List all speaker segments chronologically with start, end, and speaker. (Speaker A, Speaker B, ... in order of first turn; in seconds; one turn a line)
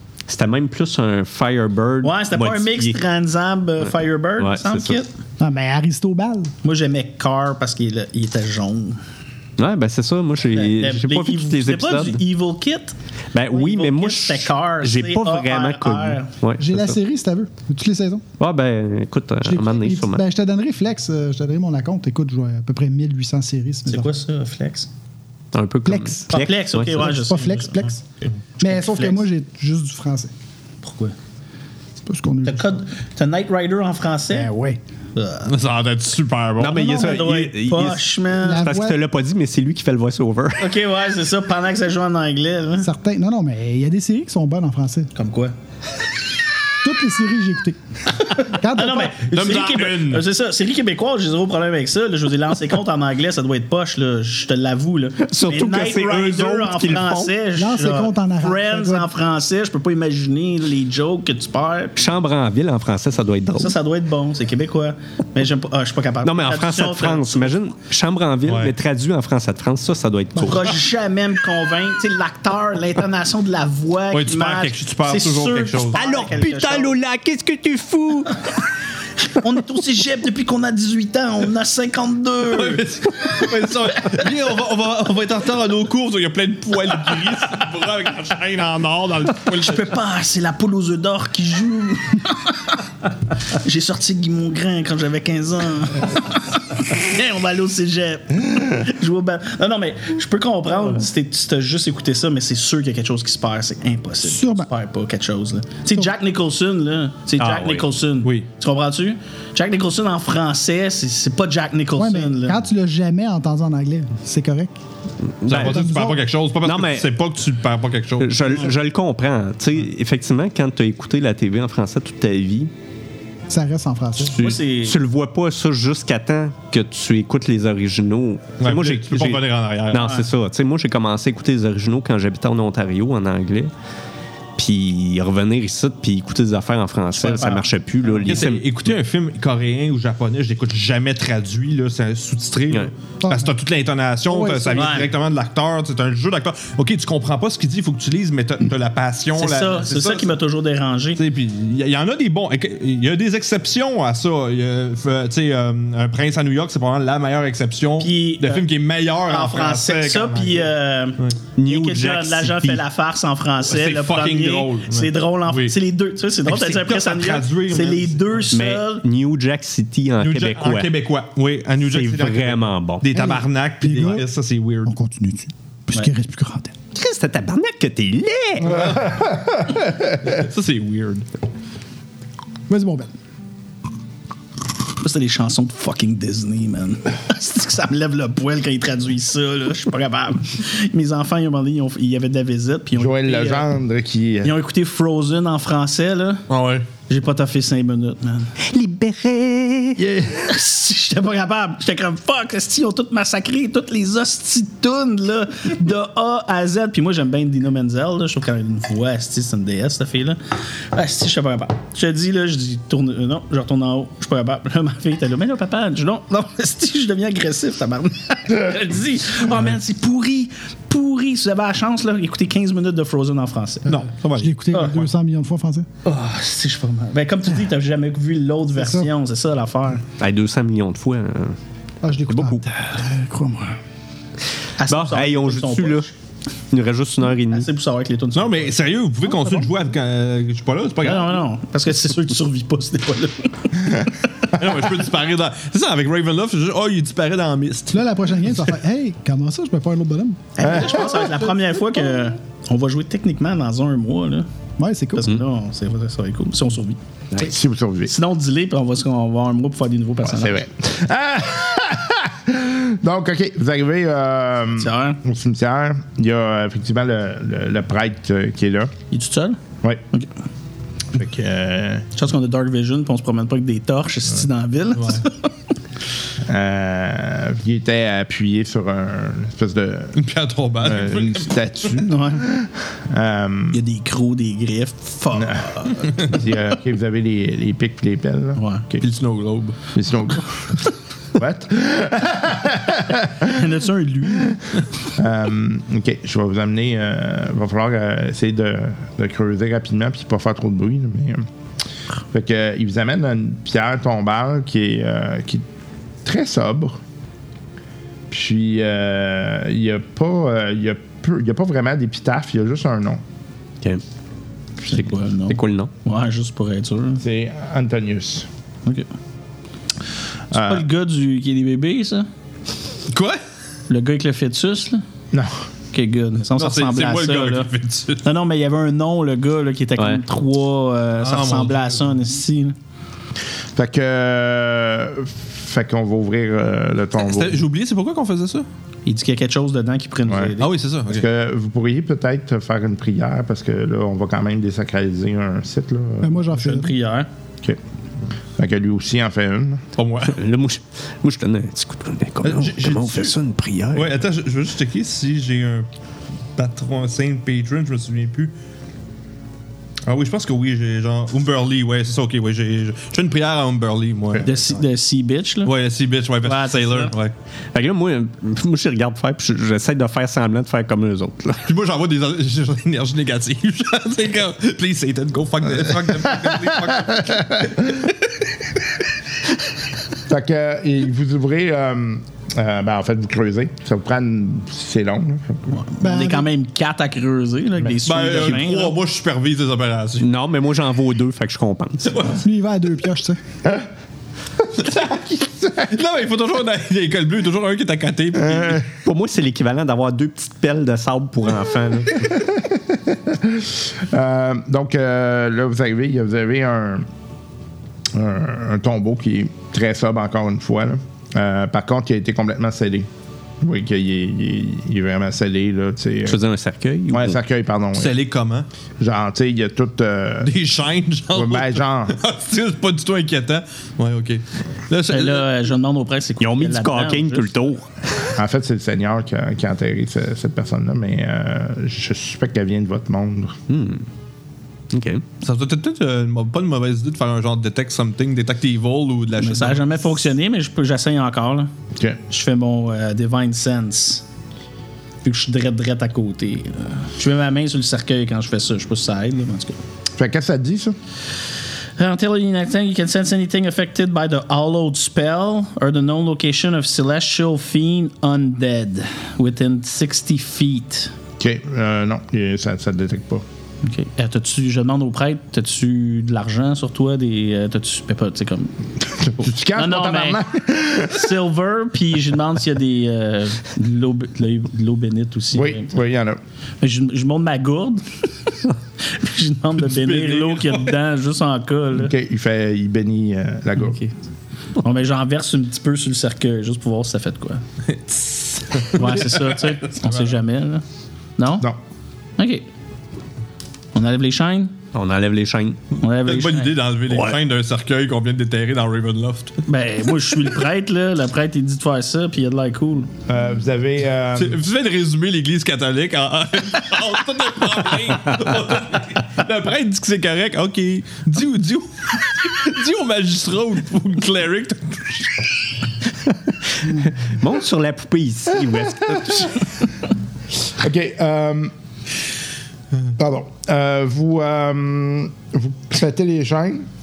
Speaker A: 0.3-3.0
Speaker B: 2.0-5.1
Speaker A: 4.4-5.0
Speaker C: 5.4-6.5
Speaker B: 6.6-9.0
Speaker A: 9.6-12.2
Speaker B: 10.5-12.9
Speaker A: 13.3-17.0
Speaker B: 13.5-16.3
Speaker C: 16.6-18.2
Speaker A: 18.4-20.2
Speaker C: 19.4-24.1
Speaker B: 23.9-24.9
Speaker A: 25.5-27.2
Speaker C: 25.9-26.4
Speaker B: 26.3-27.9
Speaker C: 26.9-28.0
Speaker C: 28.6-30.3
Speaker B: 28.6-29.2
Speaker B: 30.8-31.1
Speaker C: 32.0-32.6
Speaker B: 32.4-34.5
Speaker C: 34.3-34.8
Speaker B: 35.1-35.5
Speaker D: 35.4-37.2
Speaker A: 36.6-40.7
Speaker B: 36.8-38.6
Speaker C: 38.4-39.0
Speaker B: 40.6-42.9
Speaker C: 42.8-45.1
Speaker B: 45.1-45.5
Speaker C: 46.8-47.8
Speaker B: 48.2-62.0
Speaker C: 48.4-49.1
Speaker D: 49.1-50.2
Speaker A: 55.2-57.3
Speaker C: 57.5-59.1
Speaker A: 62.0-63.8
Speaker B: 63.6-67.6
Speaker A: 66.2-70.8
Speaker D: 68.5-68.7
Speaker B: 70.3-77.0
Speaker D: 74.1-76.0
Speaker A: 75.9-78.5
Speaker B: 79.2-82.8
Speaker D: 82.5-89.9
Speaker B: 89.4-92.8
Speaker B: 93.5-112.6
Speaker C: 104.2-104.7
Speaker A: 107.4-107.9
Speaker C: 112.0-114.8
Speaker A: 115.4-115.8
Speaker D: 115.5-118.7
Speaker C: 115.7-116.2
Speaker A: 116.6-117.1
Speaker A: 118.2-122.7
Speaker C: 123.5-124.4
Speaker A: 124.2-133.7
Speaker B: 124.3-125.0
Speaker D: 128.6-130.2
Speaker B: 129.9-130.2
Speaker A: 134.6-138.6
Speaker B: 137.2-138.3
Speaker D: 138.2-150.3
Speaker C: 143.2-143.5
Speaker C: 144.3-145.0
Speaker B: 144.7-145.1
Speaker B: 149.3-151.2
Speaker D: 151.2-161.4
Speaker B: 158.0-158.7
Speaker B: 159.2-169.0
Speaker A: 161.6-162.8
Speaker D: 163.6-165.8
Speaker D: 166.4-168.5
Speaker A: 168.5-170.9
Speaker D: 170.2-174.9
Speaker A: 171.8-173.1
Speaker C: 173.1-174.2
Speaker C: 174.8-176.7
Speaker A: 176.9-178.9
Speaker D: 178.6-181.3
Speaker C: 182.7-183.1
Speaker B: 185.0-193.7
Speaker E: 193.0-194.5
Speaker B: 194.4-196.4
Speaker D: 196.5-196.9
Speaker B: 197.1-198.5
Speaker A: 198.6-200.0
Speaker B: 200.0-210.4
Speaker B: 210.9-224.0
Speaker D: 223.8-225.0
Speaker C: 224.4-225.9
Speaker B: 224.7-225.0
Speaker B: 226.0-230.0
Speaker C: 228.8-229.1
Speaker A: 230.2-231.6
Speaker C: 232.0-233.7
Speaker A: 232.3-232.7
Speaker B: 234.8-236.1
Speaker A: 234.9-236.1
Speaker A: 236.7-237.7
Speaker B: 237.5-238.8
Speaker D: 238.3-241.4
Speaker B: 241.0-244.1
Speaker D: 244.5-248.7
Speaker C: 247.9-251.3
Speaker B: 250.6-254.5
Speaker E: 250.6-251.0
Speaker C: 254.8-255.3
Speaker B: 255.1-257.0
Speaker E: 257.4-258.1
Speaker B: 258.1-260.6
Speaker E: 260.2-268.9
Speaker B: 264.8-265.2
Speaker B: 269.1-269.6
Speaker E: 271.1-272.1
Speaker B: 272.1-275.5
Speaker D: 274.9-275.2
Speaker E: 276.4-280.2
Speaker D: 280.1-281.5
Speaker E: 280.8-283.8
Speaker B: 282.0-282.5
Speaker B: 283.7-286.4
Speaker E: 285.3-288.6
Speaker B: 288.6-288.9
Speaker D: 289.0-289.8
Speaker E: 289.9-290.8
Speaker E: 291.3-293.5
Speaker B: 293.4-294.6
Speaker E: 295.1-301.4
Speaker E: 302.3-305.6
Speaker E: 306.2-307.0
Speaker E: 308.3-313.2
Speaker B: 314.8-317.2
Speaker A: 314.9-315.9
Speaker E: 317.2-318.5
Speaker E: 320.5-320.8
Speaker B: 320.5-322.3
Speaker D: 323.1-323.4
Speaker B: 323.9-325.0
Speaker E: 325.3-325.6
Speaker B: 325.9-327.7
Speaker D: 326.5-328.2
Speaker B: 328.2-332.8
Speaker D: 331.2-332.1
Speaker E: 333.7-337.6
Speaker D: 337.2-338.6
Speaker B: 339.1-340.7
Speaker D: 340.6-341.2
Speaker E: 341.1-346.5
Speaker C: 346.2-346.9
Speaker B: 346.5-347.3
Speaker E: 348.6-349.8
Speaker D: 349.9-350.4
Speaker A: 350.2-354.1
Speaker D: 352.4-353.4
Speaker D: 353.9-355.9
Speaker D: 356.6-358.5
Speaker D: 360.1-364.6
Speaker B: 364.4-365.7
Speaker D: 365.6-367.3
Speaker B: 366.4-367.1
Speaker A: 367.7-371.6
Speaker D: 371.6-378.1
Speaker E: 377.1-377.7
Speaker E: 380.3-385.7
Speaker B: 385.7-388.9
Speaker C: 386.0-386.5
Speaker D: 388.0-390.3
Speaker A: 390.2-392.2
Speaker D: 392.0-392.4
Speaker C: 392.4-393.4
Speaker D: 394.7-398.9
Speaker E: 398.4-398.8
Speaker A: 399.0-402.4
Speaker E: 402.5-407.1
Speaker E: 408.1-413.1
Speaker E: 413.6-416.4
Speaker A: 416.2-417.4
Speaker E: 417.1-418.1
Speaker D: 417.9-418.7
Speaker E: 419.0-420.5
Speaker D: 420.4-425.5
Speaker E: 421.3-422.2
Speaker B: 425.1-427.5
Speaker A: 426.4-428.3
Speaker E: 428.3-433.6
Speaker A: 433.7-434.1
Speaker A: 434.9-435.2
Speaker D: 435.4-439.9
Speaker B: 439.4-441.7
Speaker B: 442.3-444.2
Speaker B: 445.2-449.8
Speaker E: 450.1-451.0
Speaker B: 452.0-461.1
Speaker E: 461.4-463.4
Speaker B: 463.8-468.7
Speaker E: 469.2-471.3
Speaker B: 469.4-470.4
Speaker B: 471.1-475.9
Speaker E: 475.5-476.4
Speaker B: 476.8-478.0
Speaker B: 479.0-482.1
Speaker D: 479.8-480.9
Speaker E: 482.0-484.0
Speaker B: 484.8-487.6
Speaker D: 487.8-490.3
Speaker B: 488.9-490.8
Speaker B: 491.4-491.7
Speaker B: 492.4-492.6
Speaker B: 493.9-494.7
Speaker A: 494.9-495.8
Speaker B: 496.0-496.8
Speaker D: 496.0-499.6
Speaker B: 499.7-503.1
Speaker E: 503.3-504.6
Speaker D: 504.4-515.5
Speaker A: 516.8-519.7
Speaker E: 520.7-521.7
Speaker E: 523.2-526.9